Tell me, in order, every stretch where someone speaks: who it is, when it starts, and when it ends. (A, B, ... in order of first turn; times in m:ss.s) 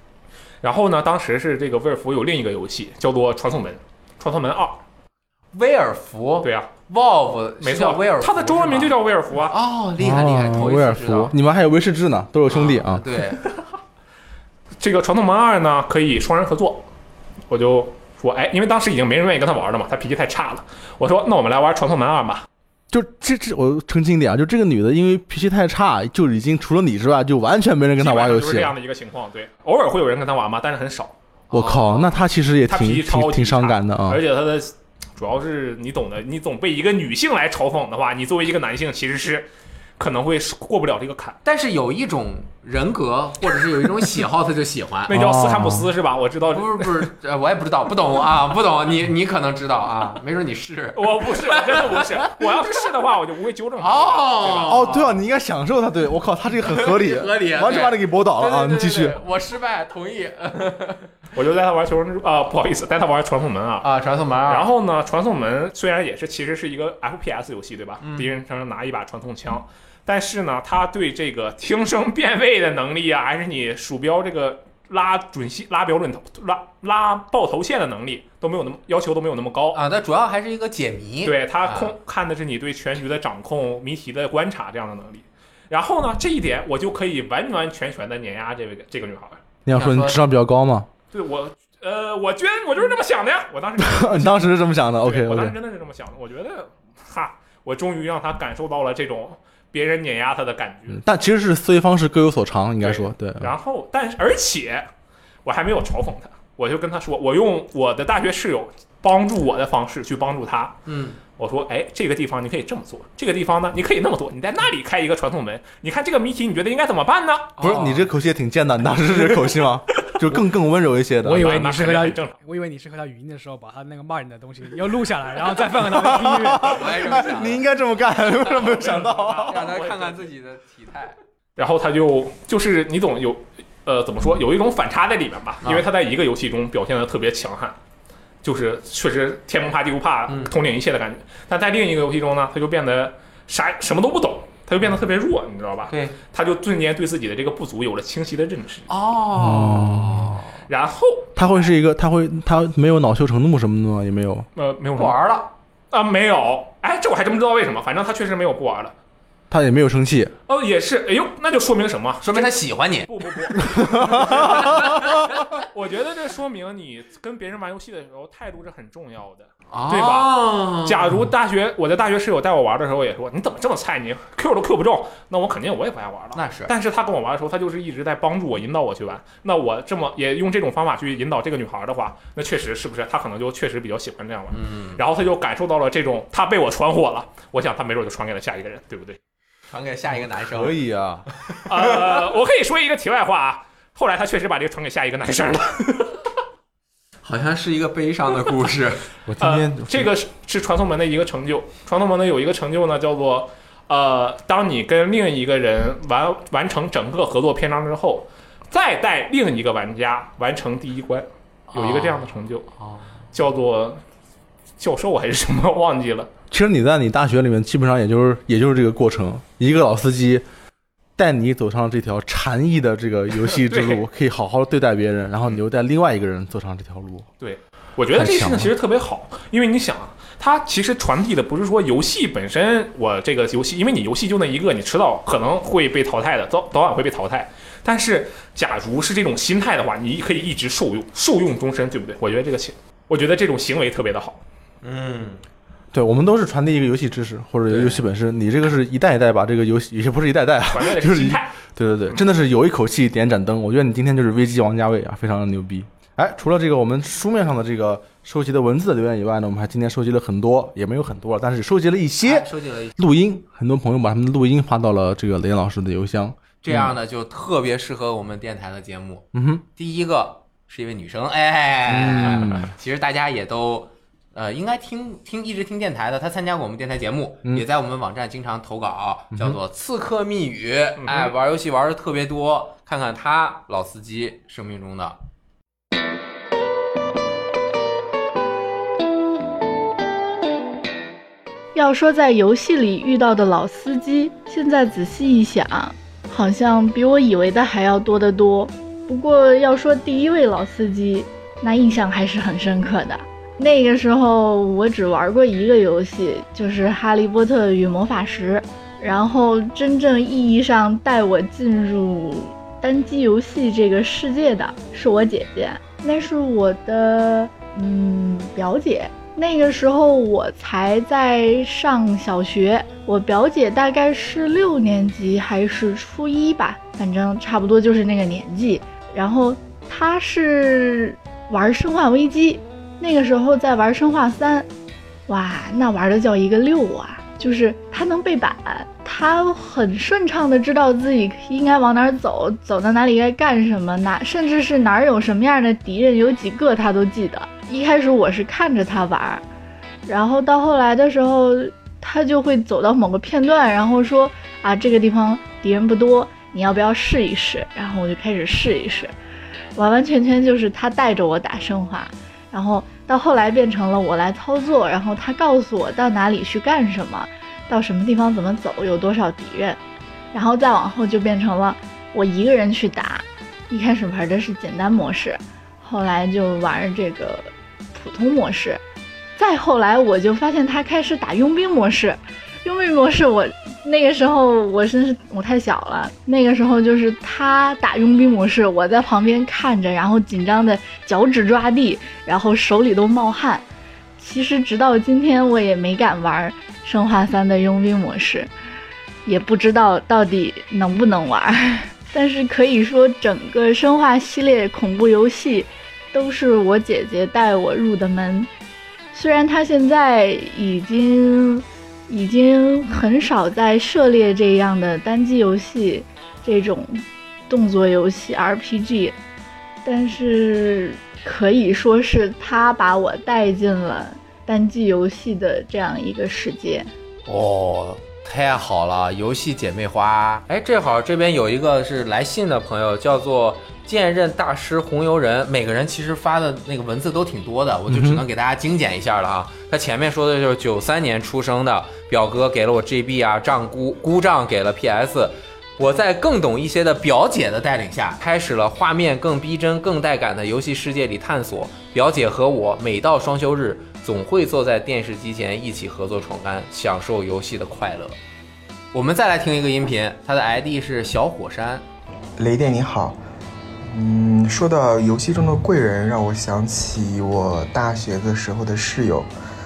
0:00.6-0:04.8 A
0:05.5-0:09.0 B
0:06.4-0:06.7 A
0:07.6-0:09.6 A
0:09.5-0:11.4 B
0:10.0-0:13.0 C
0:12.5-0:13.5 B
0:14.8-0:16.9 A
0:17.5-0:22.4 A
0:22.9-0:28.7 C
0:28.0-0:31.1 A
0:31.5-0:32.1 B
0:31.5-0:34.2 C
0:32.7-0:41.4 A
0:41.4-0:45.2 B
0:45.1-0:47.1 A
0:45.1-0:45.9 C
0:46.5-0:52.8 B
0:50.9-0:55.0 A
0:53.8-0:55.2 B
0:54.7-0:59.2 C
0:56.6-1:01.1 B
1:01.3-1:03.9 A
1:03.8-1:04.7 B
1:04.5-1:19.8 A
1:08.0-1:08.3 B
1:19.7-1:21.9 B
1:21.2-1:29.4 A
1:29.6-1:30.9 C
1:29.7-1:30.2 B
1:31.1-1:41.0 A
1:33.8-1:35.6 C
1:40.9-1:43.5 C
1:42.8-1:44.9 A
1:45.4-1:57.6 A
1:50.9-1:51.2 B
1:57.6-1:58.1 B
1:57.6-2:01.6 C
2:01.2-2:06.8 D
2:01.3-2:02.4 A
2:05.7-2:09.7 C
2:06.6-2:07.6 B
2:08.4-2:10.3 A
2:09.5-2:11.2 B
2:11.6-2:17.8 A
2:18.4-2:28.9 A
2:20.3-2:20.5 B
2:25.9-2:26.2 B
2:28.9-2:30.6 B
2:29.4-2:30.4 C
2:30.7-2:31.6 A
2:31.4-2:34.5 C
2:34.6-2:35.2 A
2:35.0-2:35.5 B
2:35.9-2:38.9 A
2:39.5-2:40.3 C
2:40.5-3:09.2 A
2:42.2-2:43.2 B
2:43.7-2:44.5 C
2:44.2-2:45.4 B
2:49.7-2:51.3 B
2:56.3-2:56.7 B
3:04.5-3:05.0 B
3:09.7-3:10.8 B
3:10.1-3:11.3 C
3:11.3-3:12.2 B
3:11.7-3:16.2 A
3:17.2-3:19.0 B
3:19.3-3:20.1 C
3:19.4-3:32.7 A
3:31.7-3:33.2 B
3:33.3-3:34.0 A
3:34.8-3:36.3 A
3:36.5-3:40.4 C
3:41.2-3:47.3 C
3:43.5-3:44.0 A
3:47.4-4:04.4 A
3:48.1-3:48.7 C
4:04.8-4:05.4 B
4:05.9-4:27.0 C
4:07.7-4:08.0 B
4:10.7-4:11.5 A
4:22.2-4:23.0 B
4:26.6-4:45.2 B
4:29.3-4:29.6 C
4:31.9-4:32.7 C
4:39.3-4:39.6 C
4:41.0-4:41.3 A
4:51.7-5:34.7 E
5:35.3-5:49.4 E
5:50.0-5:59.1 E
5:59.8-6:09.8 E
6:10.3-6:18.8 E
6:19.4-6:33.6 E
6:34.2-6:38.5 E
6:39.2-6:48.5 E
6:49.1-6:59.2 E
6:59.8-7:06.9 E
7:07.2-7:38.2 B
7:17.9-7:18.2 C
7:38.9-7:41.8 B
7:42.4-7:43.2 F
7:43.9-7:49.3 F